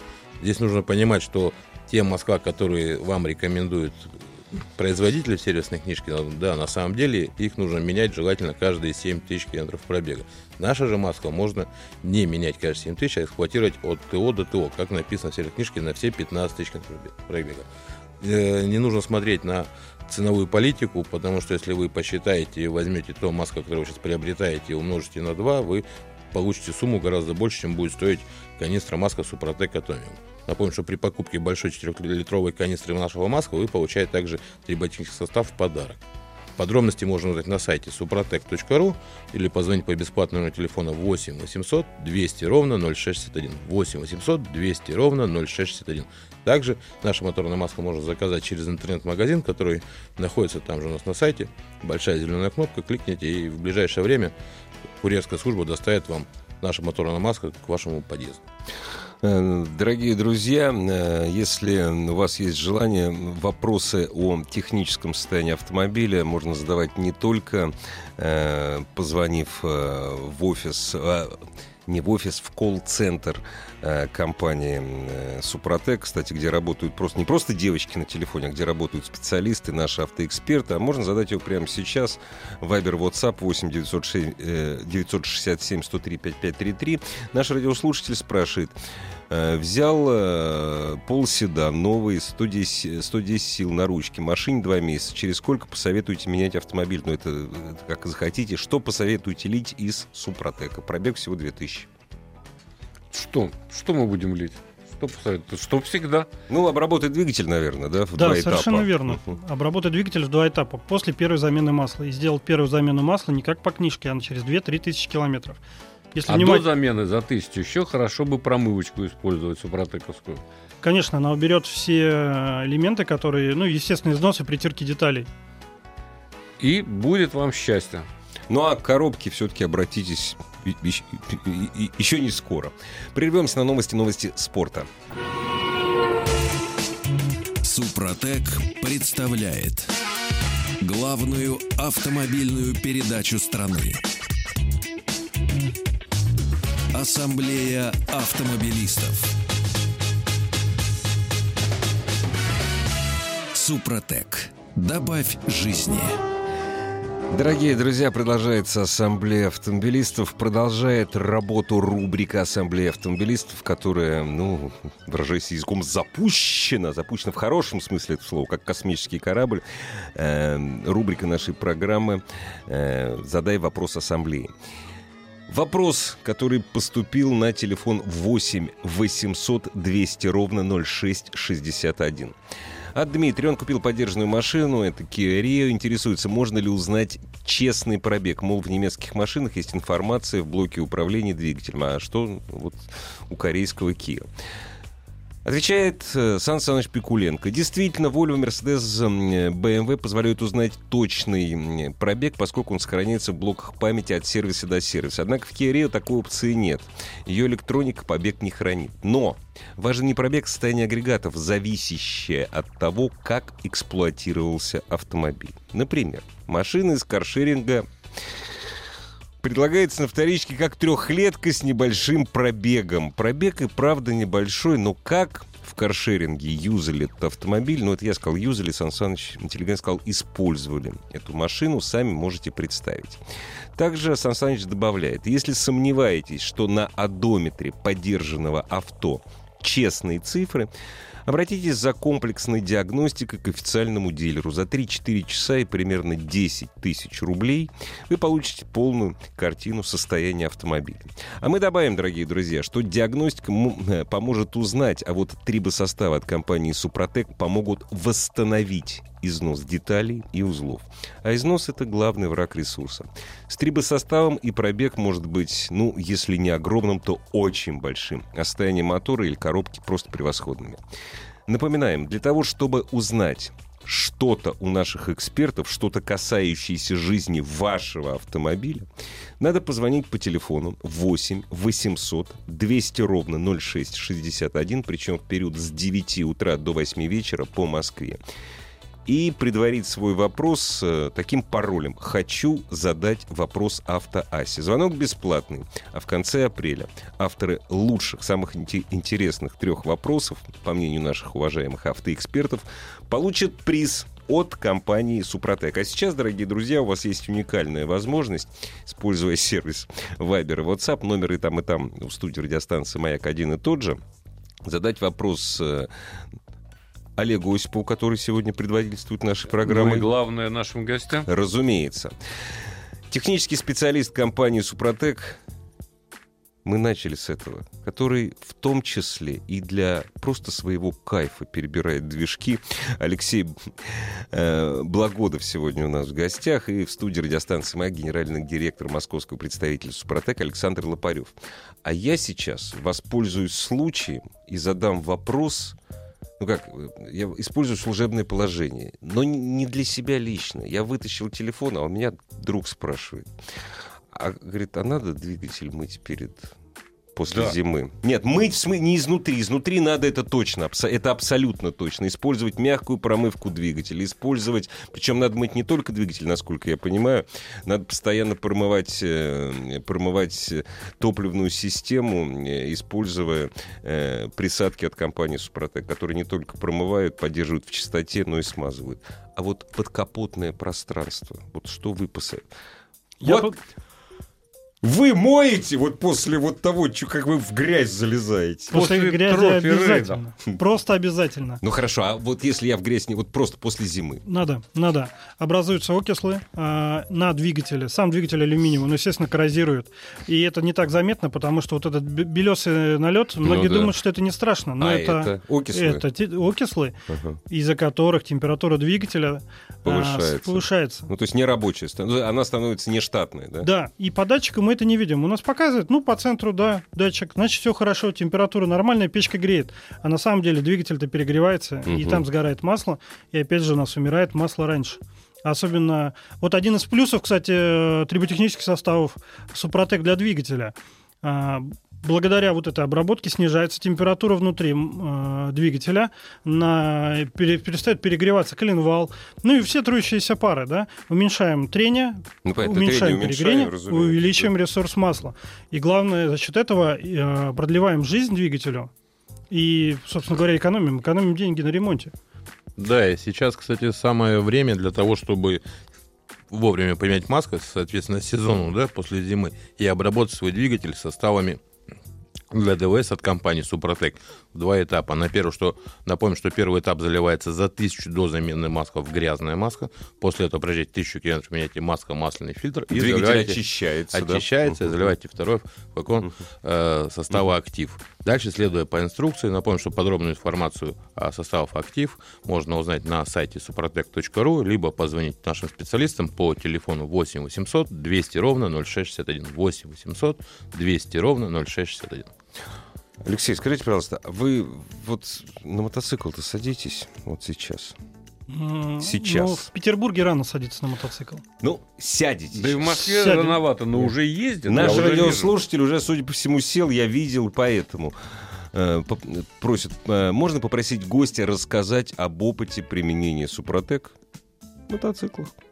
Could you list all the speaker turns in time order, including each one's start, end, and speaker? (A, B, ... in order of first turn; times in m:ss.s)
0:00.4-0:17.7 A
0:18.2-0:36.0 A
0:36.6-0:54.3 A
0:55.0-0:58.4 A
0:59.2-1:28.8 B
1:29.3-1:41.9 B
1:43.1-1:46.3 C
1:46.5-1:49.2 B
1:48.2-1:55.6 D
1:56.1-1:56.7 D
1:56.3-2:00.4 C
2:00.8-2:05.3 D
2:06.6-2:08.1 C
2:08.5-2:14.9 B
2:17.6-2:19.9 E
2:20.8-2:24.0 E
2:26.9-2:29.3 E
2:33.5-2:36.2 E
2:37.3-2:54.5 B
2:55.5-3:02.4 B
3:02.9-3:14.3 B
3:15.4-3:37.9 B
3:39.4-3:53.2 B
3:53.8-4:00.7 B
4:01.3-4:30.8 B
4:31.5-4:38.9 B
4:39.4-4:48.2 B
4:49.1-5:14.0 B
5:14.6-5:15.9 B
5:17.2-5:20.1 B
5:19.6-5:21.3 C
5:21.3-5:22.1 B
5:23.1-5:25.4 B
5:26.6-5:41.3 B
5:41.8-5:45.8 B
5:46.4-5:53.3 B
5:54.1-5:56.6 B
5:57.2-6:22.4 B
5:57.3-5:57.6 C
6:23.2-6:23.6 D
6:23.2-6:23.5 B
6:24.8-6:28.9 B
6:28.7-6:30.2 C
6:28.7-6:31.6 D
6:31.6-6:34.2 B
6:34.2-6:47.0 D
6:43.4-6:43.9 B
6:44.8-6:46.1 B
6:47.1-6:47.4 B
6:47.5-6:51.1 D
6:49.8-6:53.7 B
6:53.6-7:28.9 D
7:01.9-7:02.3 B
7:22.4-7:24.5 B
7:29.5-7:32.1 D
7:32.8-7:35.6 A
7:36.5-7:41.6 A
7:42.5-7:53.6 A
7:52.9-7:54.9 B
7:54.1-8:12.3 A
8:13.2-8:18.0 B
8:18.5-8:21.4 D
8:19.0-8:19.7 B
8:21.6-8:23.0 B
8:22.5-8:25.5 C
8:23.0-8:23.6 D
8:24.7-8:34.2 B
8:34.9-8:35.6 B